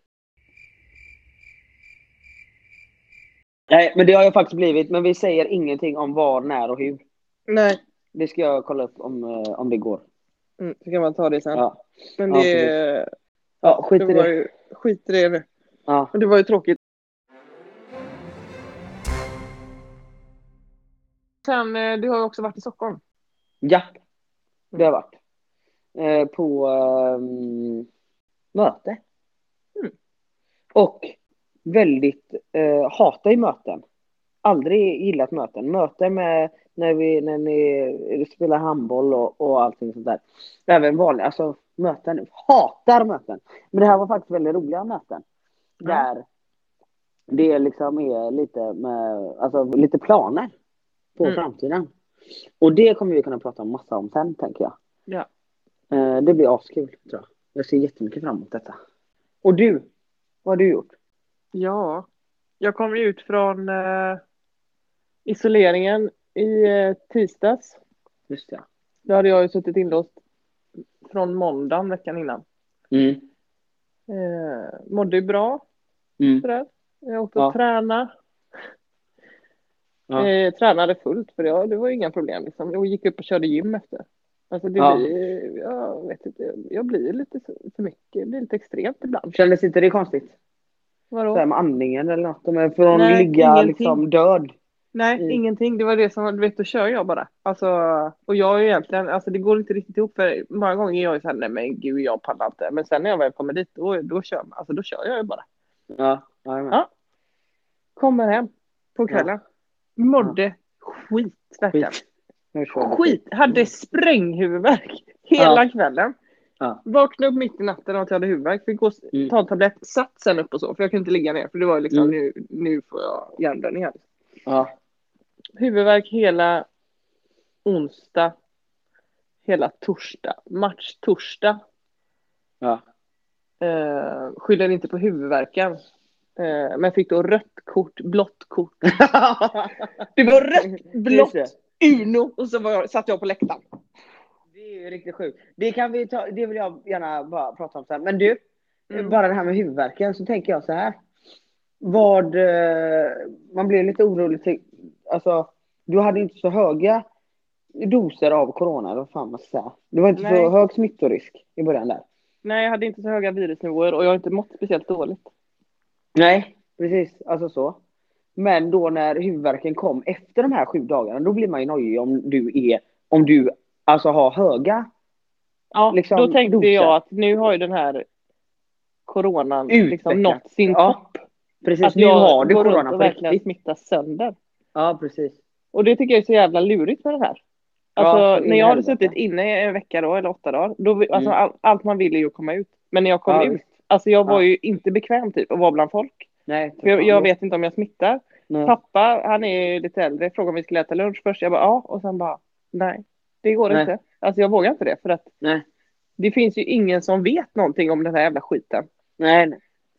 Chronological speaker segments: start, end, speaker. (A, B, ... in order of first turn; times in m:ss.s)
0:03.7-0:07.0 A
0:07.5-0:07.8 B
0:08.1-0:10.0 A
0:10.6-0:11.6 B
0:11.5-0:12.7 A
0:12.2-0:13.1 B
0:13.6-0:14.3 A
0:13.6-0:15.4 B
0:15.9-0:16.1 A
0:16.1-0:16.8 B
0:21.4-0:23.0 B
0:23.6-0:23.9 A
0:24.8-0:25.1 A
0:26.0-0:27.8 A
0:28.5-0:29.0 A
0:30.7-0:31.1 A
0:31.6-0:33.8 A
0:34.4-0:45.2 A
0:45.8-0:46.2 A
0:47.3-0:50.5 A
0:51.2-0:51.9 A
0:52.6-0:54.7 A
0:55.9-0:58.8 A
0:59.4-0:59.9 A
1:00.4-1:00.9 A
1:01.5-1:02.0 B
1:02.6-1:04.2 B
1:05.2-1:07.8 B
1:08.3-1:08.6 A
1:09.1-1:10.2 B
1:11.0-1:12.4 B
1:12.9-1:13.2 A
1:14.1-1:15.6 B
1:16.2-1:16.4 A
1:16.4-1:18.1 B
1:20.2-1:29.4 B
1:24.8-1:25.1 A
1:29.3-1:30.3 A
1:31.1-1:31.4 B
1:31.3-1:34.5 A
1:32.9-1:34.0 B
1:34.9-1:45.4 B
1:45.9-1:46.8 A
1:48.0-1:49.4 B
1:50.0-1:52.0 B
1:52.5-1:53.6 A
1:52.7-1:56.1 B
1:55.4-1:55.6 A
1:56.8-2:04.0 B
2:04.4-2:04.7 A
2:05.6-2:06.6 B
2:07.6-2:08.3 B
2:09.4-2:11.6 B
2:13.6-2:15.8 B
2:16.4-2:18.7 B
2:18.8-2:19.9 A
2:20.2-2:23.6 B
2:20.6-2:21.5 A
2:24.5-2:28.4 A
2:28.9-2:29.2 B
2:28.9-2:31.0 A
2:31.8-2:37.0 A
2:37.8-2:42.0 A
2:40.2-2:40.5 B
2:42.4-2:45.3 B
2:46.1-2:47.8 A
2:48.4-2:54.9 A
2:55.7-2:58.0 B
2:55.9-2:56.9 A
2:59.1-3:01.2 B
2:59.7-3:01.0 A
3:01.6-3:03.4 A
3:01.8-3:04.3 B
3:04.7-3:05.4 A
3:05.7-3:07.4 B
3:08.0-3:16.3 B
3:08.0-3:09.2 A
3:13.3-3:13.6 A
3:16.5-3:17.3 A
3:16.8-3:25.3 B
3:26.2-3:28.8 B
3:29.2-3:29.6 A